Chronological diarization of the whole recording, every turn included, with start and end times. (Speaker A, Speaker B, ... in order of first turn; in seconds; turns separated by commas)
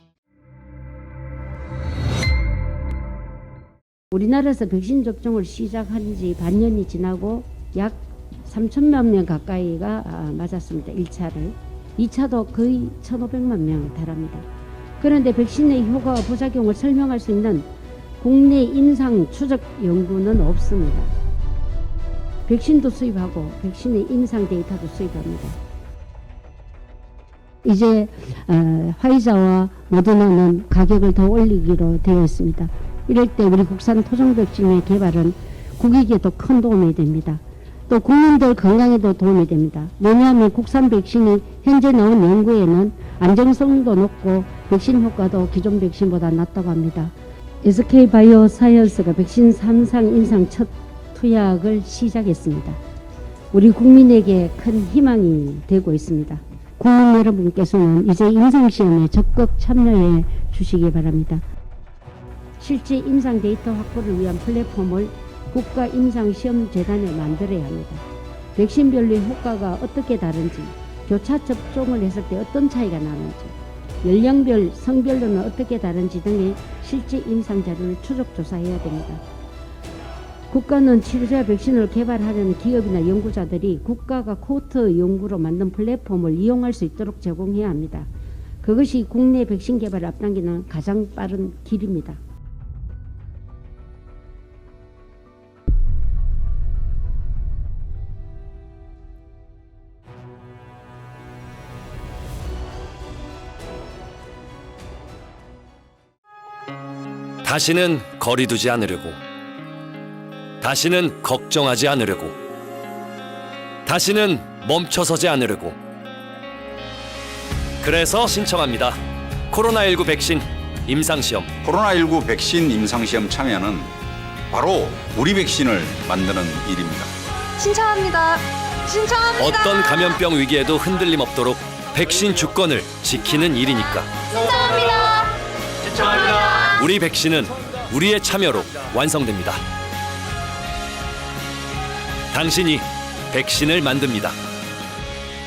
Speaker A: 4.1-14.4, Speaker A: 15.0-17.7, Speaker A: 18.2-21.1, Speaker A: 22.5-25.6, Speaker A: 27.6-52.8, Speaker A: 53.5-61.4, Speaker A: 62.6-68.0, Speaker A: 68.5-79.2, Speaker A: 80.5-88.1, Speaker A: 88.6-92.2, Speaker B: 107.4-109.2, Speaker B: 110.6-112.4, Speaker B: 113.8-115.8, Speaker B: 117.8-119.0, Speaker B: 119.5-121.5, Speaker C: 121.6-123.9, Speaker C: 124.5-127.1, Speaker D: 127.6-129.8, Speaker B: 129.4-135.2, Speaker D: 134.4-135.3, Speaker B: 135.8-139.6, Speaker B: 142.3-144.4